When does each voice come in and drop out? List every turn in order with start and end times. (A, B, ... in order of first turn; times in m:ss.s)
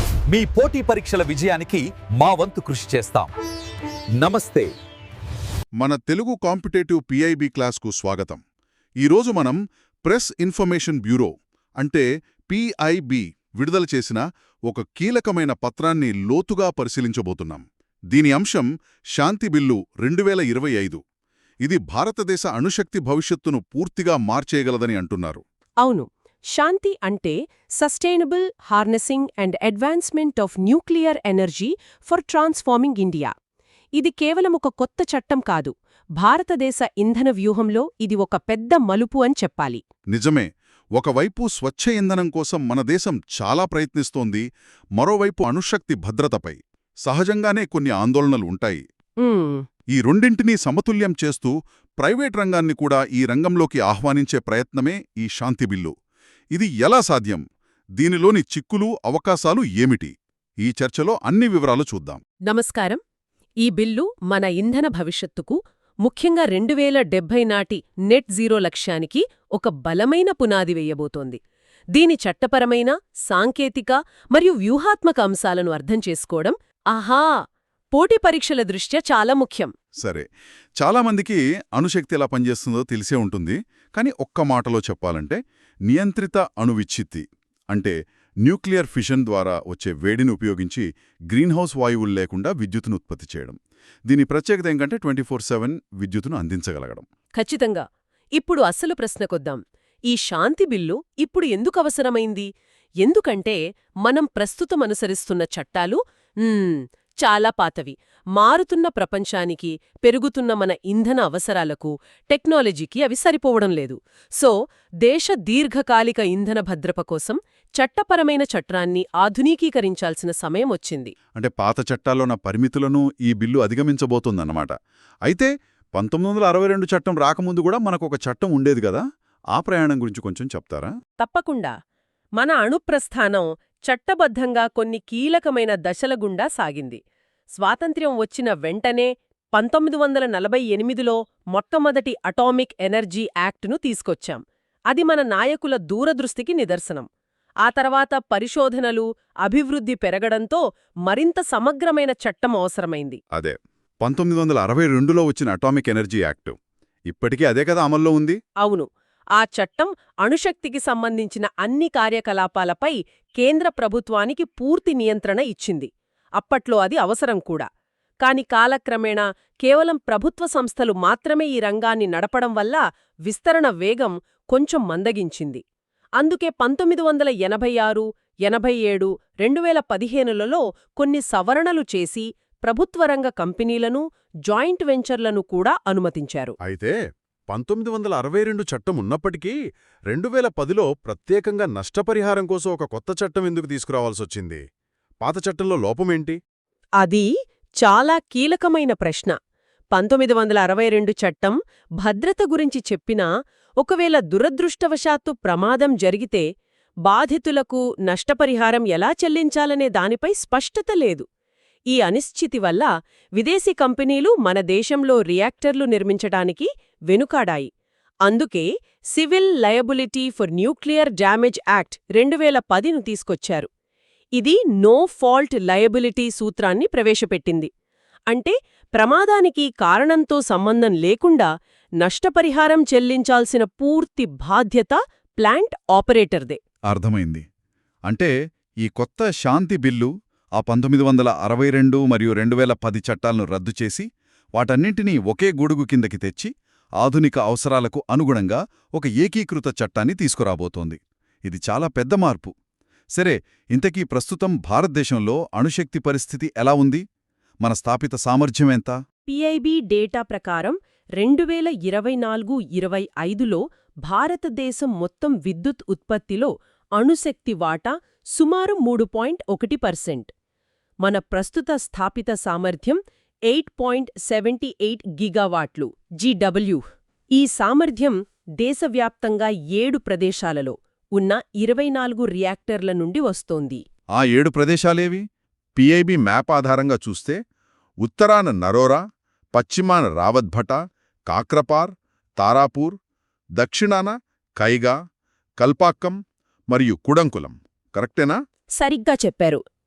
0:00.3-0:03.3 A
0:04.2-0:04.7 A
0:05.8-0:08.4 B
0:09.0-0:21.0 B
0:21.6-0:25.4 B
0:25.8-0:33.3 C
0:34.0-0:39.8 C
0:40.1-0:44.4 B
0:45.0-0:48.8 B
0:49.2-0:49.6 C
0:49.9-0:55.9 B
0:56.5-0:57.4 B
0:58.0-1:02.2 B
1:02.5-1:03.0 C
1:03.6-1:11.4 C
1:11.9-1:17.3 C
1:17.9-1:19.7 C
1:20.0-1:20.3 B
1:20.8-1:37.1 B
1:37.4-1:37.8 C
1:38.4-1:42.5 C
1:43.0-2:01.1 C
2:01.4-2:04.7 B
2:05.3-2:09.0 B
2:09.5-2:10.9 B
2:11.2-2:11.7 C
2:12.4-2:17.0 C
2:17.6-2:27.1 C
2:27.6-2:33.2 C
2:33.3-2:36.6 B
2:37.1-2:38.4 B
2:38.6-2:47.7 C
2:48.2-2:55.6 C
2:56.2-3:06.6 C
3:06.6-3:07.0 B
3:07.5-3:09.6 B
3:10.1-3:14.6 B
3:15.2-3:16.4 B
3:17.0-3:17.3 C
3:17.8-3:19.4 C
3:19.9-3:23.3 C
3:23.8-3:26.4 C
3:27.1-3:31.2 C
3:31.9-3:37.7 C
3:38.2-3:43.7 C
3:44.4-3:47.7 C
3:48.3-3:51.5 C
3:52.0-3:56.6 C
3:56.9-3:57.4 B
3:58.1-4:12.5 B
4:13.2-4:17.0 B
4:17.6-4:19.0 B
4:19.3-4:30.3 C
4:31.0-4:36.8 C
4:37.4-4:43.8 C
4:44.2-4:45.2 B
4:45.8-4:47.4 B
4:48.0-4:49.0 B
4:49.6-4:50.8 B
4:51.3-4:53.0 B
4:53.6-4:54.9 B
4:55.6-4:56.2 B
4:56.7-4:58.4 B
4:58.8-4:59.6 C